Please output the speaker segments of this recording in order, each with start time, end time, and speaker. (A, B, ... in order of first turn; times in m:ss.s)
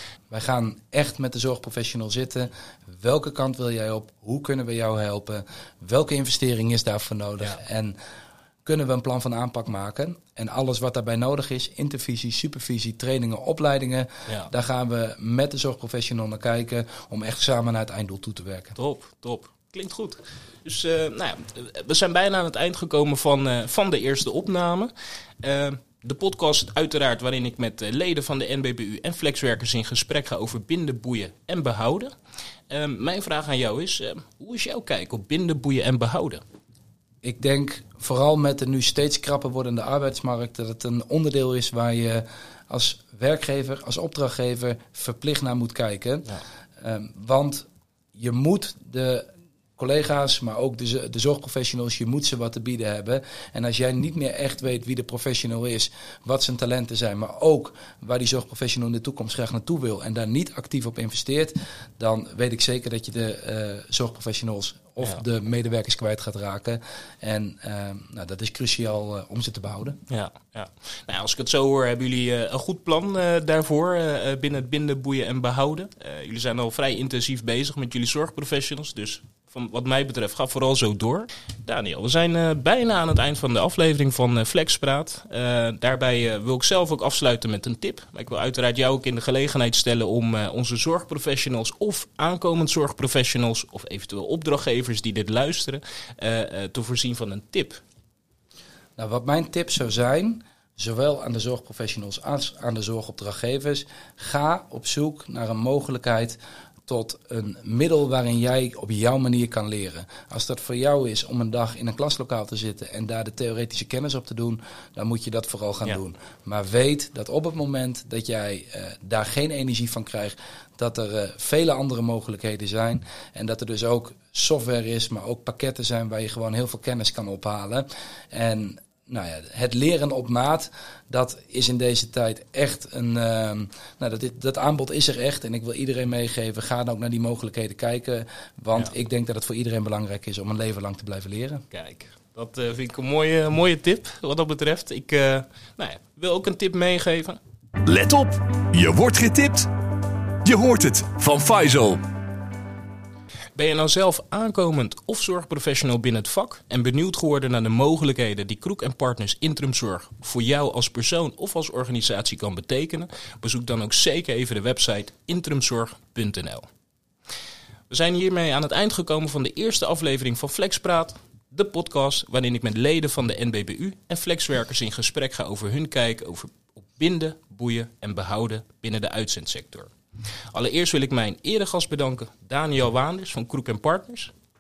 0:00.3-0:08.0 A
0:08.6-0:18.8 A
0:18.8-0:24.9 B
0:25.4-0:32.1 B
0:32.7-0:36.4 B
0:37.2-1:10.0 A
1:10.1-1:37.8 B
1:39.0-2:21.6 A
2:21.7-2:27.4 B
2:27.8-2:29.7 C
2:30.4-2:32.0 C
2:33.6-2:46.7 B
2:47.9-2:59.9 B
3:00.5-3:04.3 B